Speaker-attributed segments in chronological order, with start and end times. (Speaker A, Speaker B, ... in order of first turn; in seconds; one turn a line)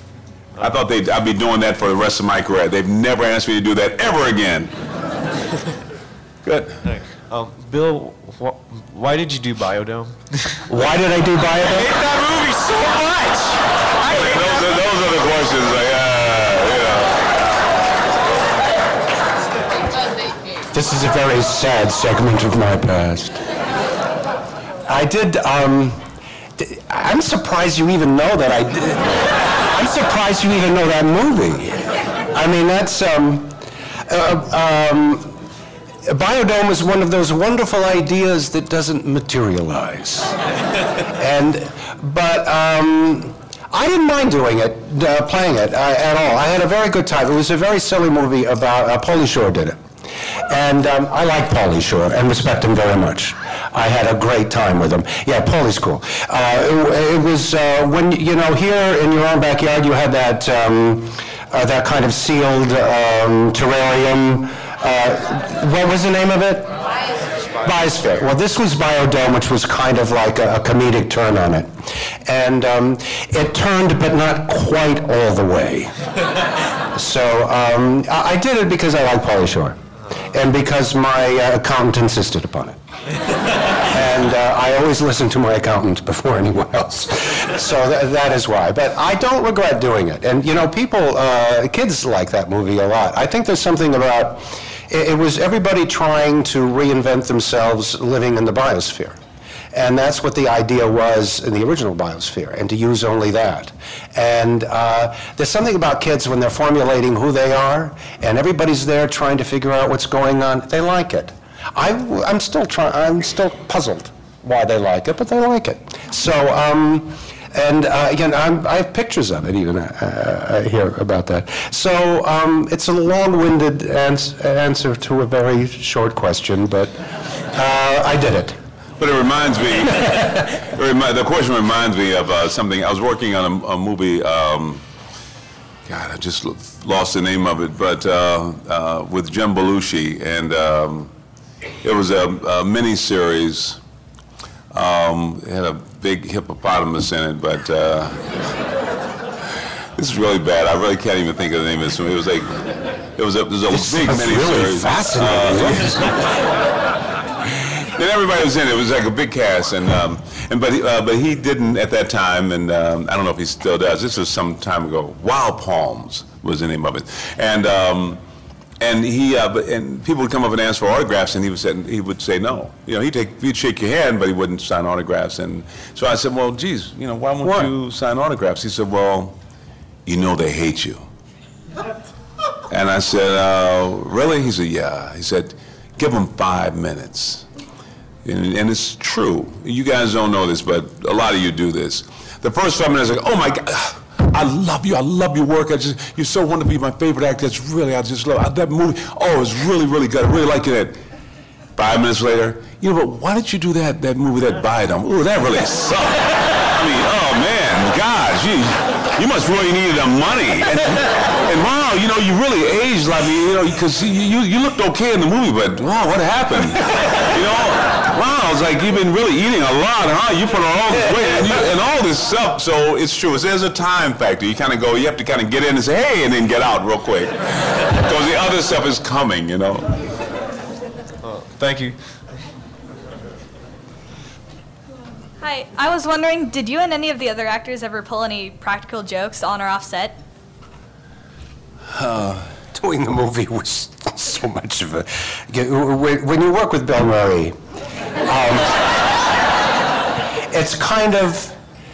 Speaker A: 0.6-4.7
Speaker A: 6.5-6.8
Speaker B: 6.8-10.6
Speaker C: 10.7-11.9
Speaker A: 14.0-17.2
Speaker C: 20.7-23.4
Speaker C: 24.9-26.1
Speaker C: 26.6-35.4
Speaker C: 36.1-40.4
Speaker C: 41.2-49.8
Speaker C: 50.5-66.7
Speaker C: 67.6-75.9
Speaker C: 76.9-79.8
Speaker C: 80.3-82.8
Speaker C: 83.9-99.2
Speaker C: 99.7-127.0
Speaker C: 127.5-128.6
Speaker A: 129.0-134.8
Speaker A: 135.9-141.1
Speaker A: 141.8-143.8
Speaker A: 144.7-148.3
Speaker A: 150.0-156.2
Speaker C: 153.7-156.2
Speaker A: 157.5-168.2
Speaker A: 168.8-179.4
Speaker C: 177.4-177.7
Speaker A: 180.1-181.0
Speaker A: 182.7-187.5
Speaker A: 188.2-201.0
Speaker A: 201.8-230.0
Speaker B: 231.2-232.0
Speaker D: 235.4-240.2
Speaker C: 242.7-247.6
Speaker C: 248.2-248.7
Speaker C: 250.5-251.6